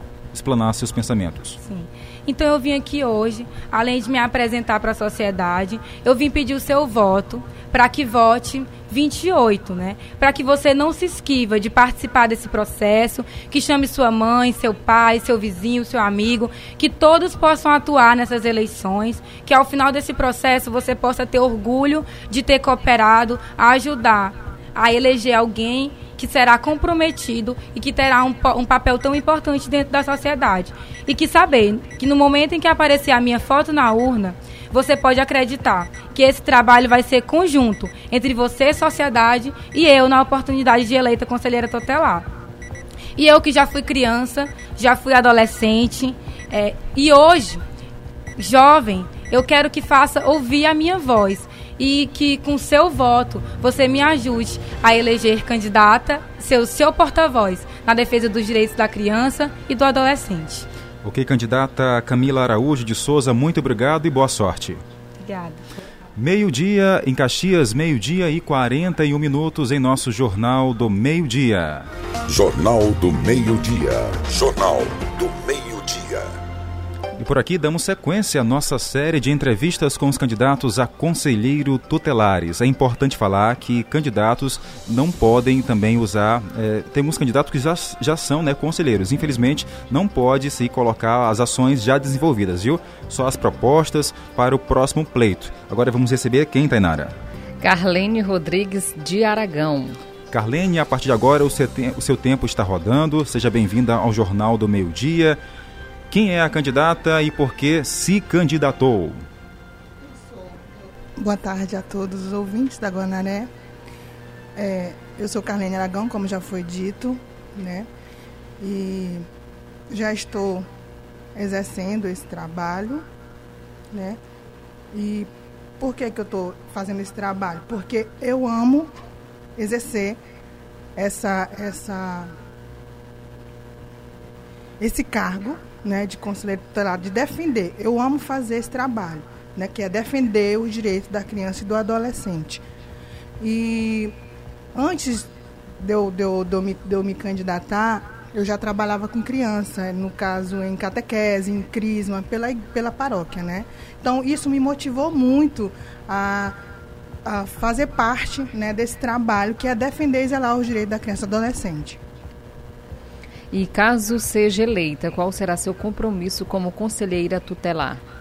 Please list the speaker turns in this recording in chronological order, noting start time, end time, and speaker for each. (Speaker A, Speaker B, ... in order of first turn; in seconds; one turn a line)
Speaker A: 0.3-1.6
Speaker B: 1.6-42.3
Speaker B: 43.1-47.6
Speaker B: 48.4-60.7
Speaker A: 61.0-64.8
Speaker B: 65.2-65.8
Speaker A: 66.2-71.9
Speaker C: 72.3-76.4
Speaker A: 77.2-97.1
Speaker D: 97.6-100.0
Speaker A: 100.3-105.4
Speaker A: 106.1-109.2
Speaker E: 110.0-113.5
Speaker E: 114.5-117.9
Speaker E: 118.6-119.2
Speaker E: 119.9-120.7
Speaker E: 121.3-123.0
Speaker E: 123.9-124.2
Speaker E: 124.9-128.9
Speaker E: 129.6-130.2
Speaker E: 130.9-132.3
Speaker E: 134.8-142.6
Speaker E: 143.4-144.1
Speaker E: 144.7-156.6
Speaker E: 157.2-162.0
Speaker D: 163.5-168.0